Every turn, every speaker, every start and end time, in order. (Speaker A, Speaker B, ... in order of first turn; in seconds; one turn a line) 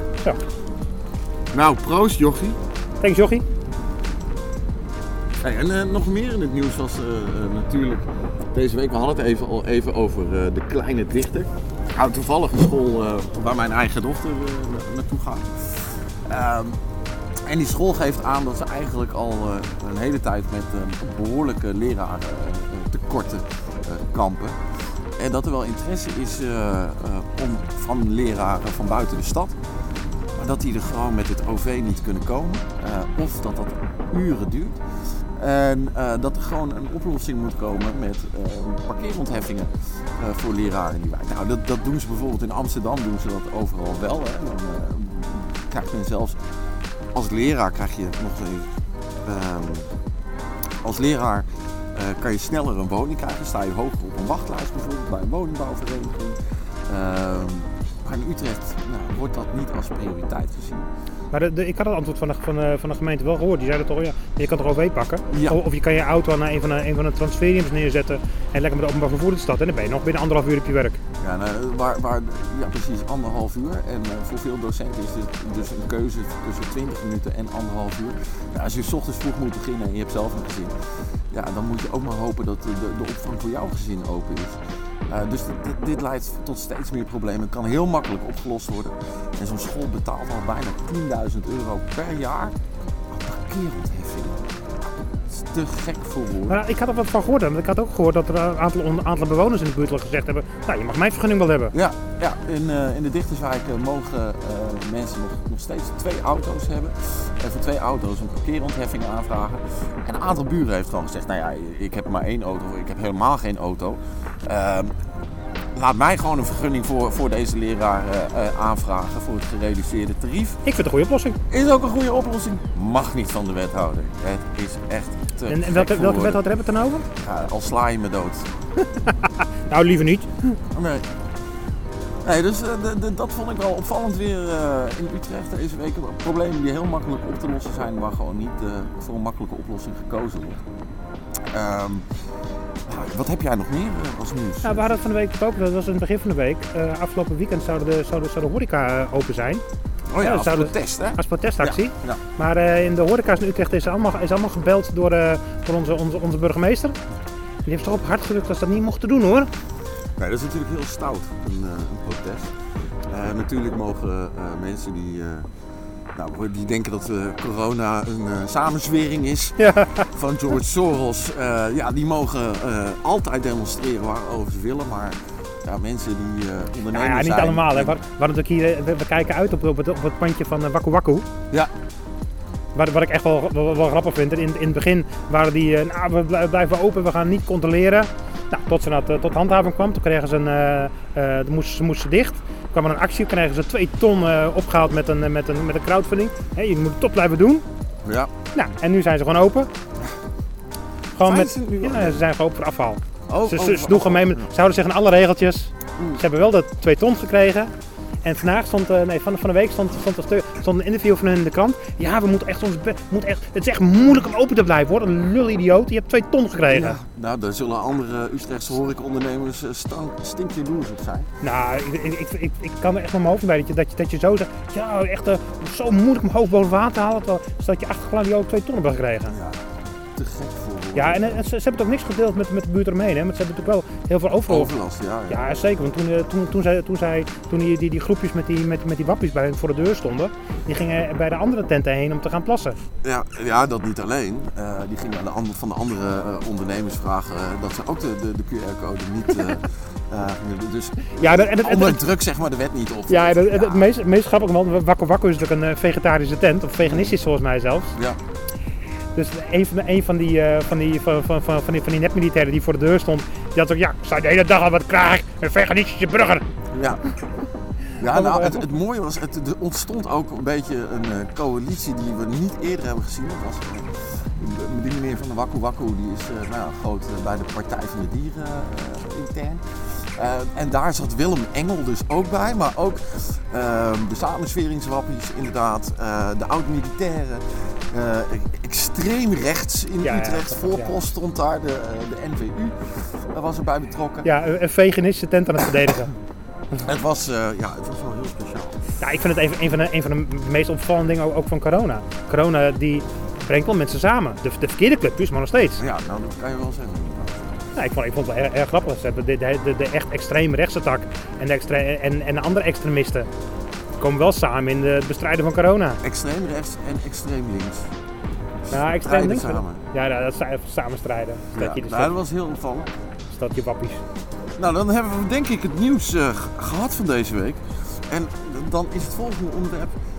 Speaker A: 1.5-2.6
Speaker B: 3.0-3.5
Speaker A: 5.4-16.8
Speaker A: 17.4-24.6
Speaker A: 25.2-29.6
Speaker A: 30.4-34.8
Speaker A: 35.4-46.4
Speaker A: 47.1-48.7
Speaker A: 49.2-49.9
Speaker A: 50.8-60.9
Speaker B: 61.3-71.0
Speaker A: 65.3-65.6
Speaker A: 71.2-80.7
Speaker A: 81.3-92.6
Speaker A: 93.1-96.6
Speaker B: 96.5-101.7
Speaker A: 101.7-114.9
Speaker A: 115.8-120.6
Speaker B: 120.7-121.4
Speaker A: 121.5-126.4
Speaker B: 125.5-127.1
Speaker A: 127.2-128.5
Speaker B: 128.8-130.6
Speaker A: 130.7-131.1
Speaker A: 132.2-140.6
Speaker A: 141.5-142.1
Speaker A: 142.9-144.9
Speaker B: 144.6-149.6
Speaker A: 150.1-152.2
Speaker B: 150.2-157.0
Speaker B: 157.7-159.5
Speaker A: 160.2-162.5
Speaker A: 163.1-165.5
Speaker A: 166.2-178.0
Speaker B: 169.6-170.1
Speaker B: 176.9-181.3
Speaker B: 182.8-197.7
Speaker A: 198.1-198.3
Speaker B: 198.5-199.7
Speaker B: 201.2-207.7
Speaker A: 201.2-202.3
Speaker A: 203.3-204.5
Speaker A: 206.0-206.2
Speaker B: 208.2-217.0
Speaker A: 216.7-221.3
Speaker B: 221.4-229.3
Speaker A: 229.3-231.4
Speaker B: 230.9-234.7
Speaker A: 234.5-235.5
Speaker B: 235.3-242.8
Speaker A: 243.0-253.9
Speaker B: 251.1-252.0
Speaker B: 253.1-258.0
Speaker A: 256.8-257.1
Speaker B: 259.1-266.4
Speaker A: 266.7-267.0
Speaker B: 267.9-268.7
Speaker A: 268.0-294.3
Speaker B: 290.0-291.0
Speaker B: 294.2-296.1
Speaker A: 296.8-298.8
Speaker B: 299.0-305.8
Speaker A: 305.8-307.7
Speaker B: 307.8-313.3
Speaker B: 314.0-316.0
Speaker A: 316.0-317.9
Speaker A: 318.6-319.8
Speaker B: 318.7-322.1
Speaker A: 321.6-322.9
Speaker B: 323.3-324.0
Speaker A: 324.6-329.9